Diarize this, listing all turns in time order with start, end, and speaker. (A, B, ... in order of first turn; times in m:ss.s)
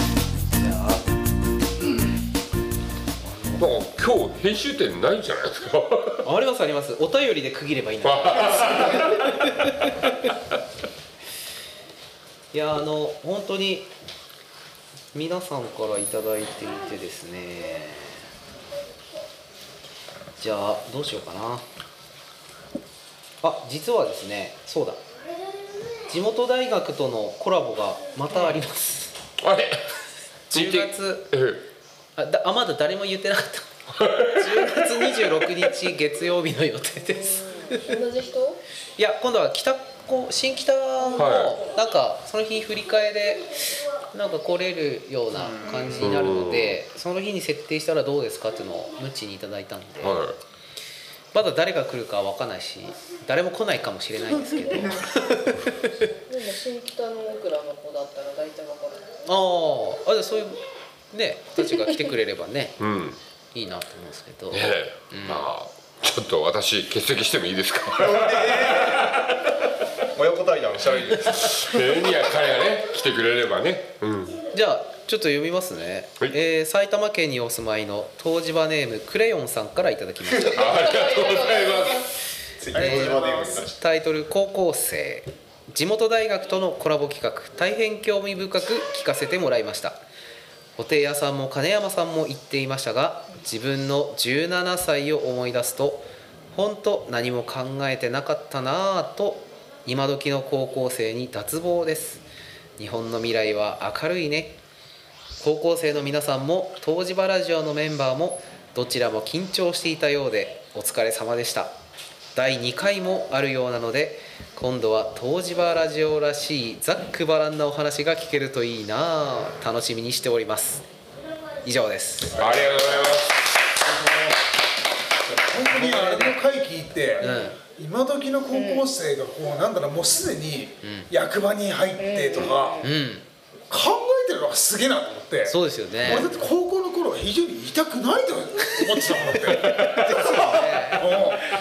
0:00.5-0:01.1 A
0:03.2-0:03.7 A
0:03.6-0:06.2 B
0:06.2-0:09.9 A
0:08.0-0:09.1 B
0:12.5-0:13.9 A
0:15.1-0:18.2 A
0:20.4-0:21.6 A
0:23.4-0:25.0 A
0:26.1-0:29.2 A
0:29.4-0:30.0 B
0:30.5-0:31.3 A
0:30.5-0:31.6 B
0:32.2-0:38.0 A
0:34.0-0:34.8 B
0:37.4-0:38.6 C
0:39.0-0:43.5 A
0:41.2-0:41.6 B
0:44.1-0:50.2 A
0:45.4-0:46.0 D
0:46.0-0:46.8 B
0:50.0-0:50.4 B
0:51.3-0:56.1 A
0:56.3-0:59.1 C
0:59.2-1:00.6 A
1:01.1-1:02.8 A
1:02.8-1:03.2 B
1:03.5-1:05.5 A
1:04.5-1:09.2 B
1:08.0-1:09.3 E
1:10.2-1:12.0 E
1:11.1-1:14.4 B
1:14.5-1:21.2 A
1:20.5-1:22.1 B
1:22.6-1:23.8 E
1:22.7-1:30.0 A
1:30.8-1:42.2 A
1:42.8-1:44.6 A
1:45.4-1:51.7 A
1:52.4-2:00.8 A
2:01.6-2:02.4 A
2:02.3-2:03.4 B
2:02.4-2:03.1 D
2:05.3-2:12.8 D
2:05.7-2:06.4 A
2:07.2-2:07.6 A
2:08.5-2:08.9 C
2:10.8-2:11.1 A
2:12.0-2:12.8 C
2:12.8-2:13.3 A
2:13.7-2:20.0 D
2:15.4-2:16.3 A
2:19.5-2:21.3 A
2:20.9-2:21.4 D